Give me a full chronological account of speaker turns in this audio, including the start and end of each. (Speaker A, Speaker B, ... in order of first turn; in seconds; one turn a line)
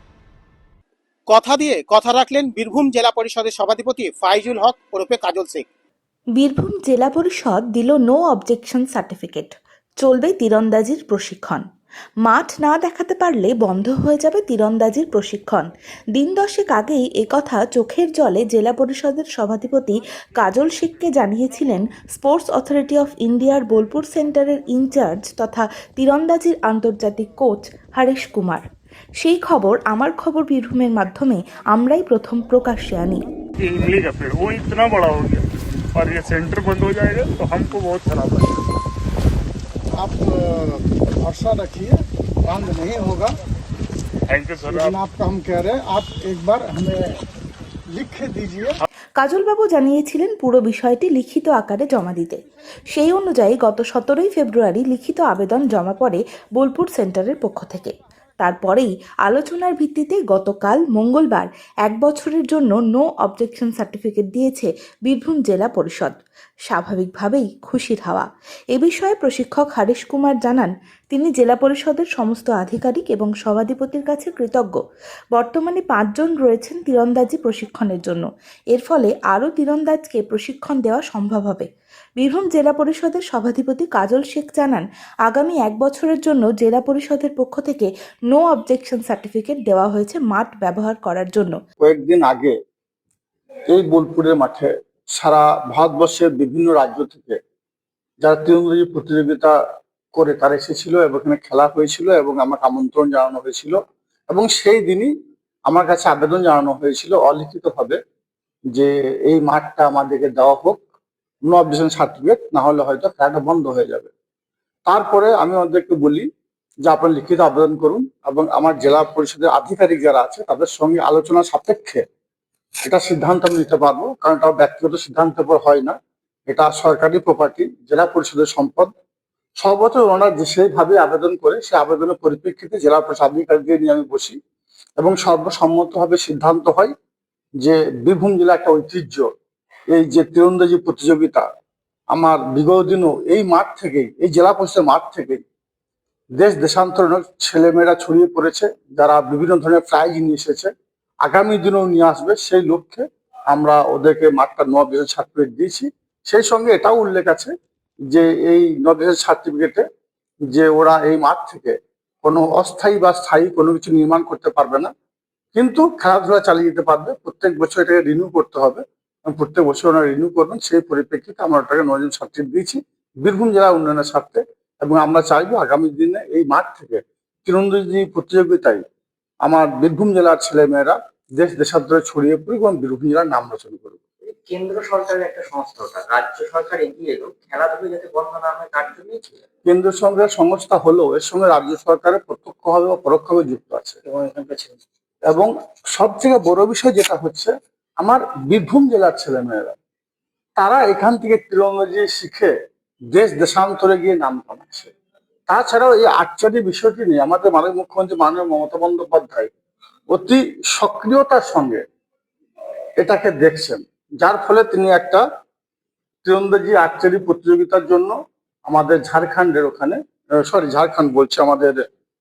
Speaker A: 1.3-5.6
Speaker B: 6.4-11.6
Speaker B: 12.2-28.6
Speaker B: 29.2-33.2
Speaker C: 33.6-38.6
Speaker D: 40.0-42.0
Speaker D: 42.5-43.3
Speaker C: 44.3-44.9
Speaker D: 44.7-47.0
Speaker D: 48.0-48.7
Speaker B: 49.2-52.4
Speaker B: 52.9-74.8
Speaker B: 75.3-81.7
Speaker B: 82.2-91.6
Speaker E: 91.8-92.5
Speaker E: 93.7-97.4
Speaker E: 98.2-99.5
Speaker E: 100.2-103.8
Speaker E: 104.3-105.1
Speaker E: 105.7-108.0
Speaker E: 108.7-110.8
Speaker E: 111.5-114.1
Speaker E: 114.9-116.3
Speaker E: 116.8-122.0
Speaker E: 122.8-126.0
Speaker E: 126.5-128.9
Speaker E: 129.6-134.4
Speaker E: 135.0-136.9
Speaker E: 137.6-139.3
Speaker E: 139.9-141.4
Speaker E: 142.1-145.4
Speaker E: 146.4-150.7
Speaker E: 151.2-157.5
Speaker E: 158.1-159.8
Speaker E: 160.5-164.9
Speaker E: 165.5-178.8
Speaker E: 179.4-184.0
Speaker F: 184.3-189.4
Speaker E: 189.6-194.0
Speaker F: 194.1-194.8
Speaker E: 195.3-199.7
Speaker E: 200.6-202.5
Speaker E: 203.1-204.9
Speaker E: 205.5-209.5
Speaker E: 210.1-211.8
Speaker E: 213.0-215.2
Speaker E: 216.2-218.1
Speaker E: 218.7-221.8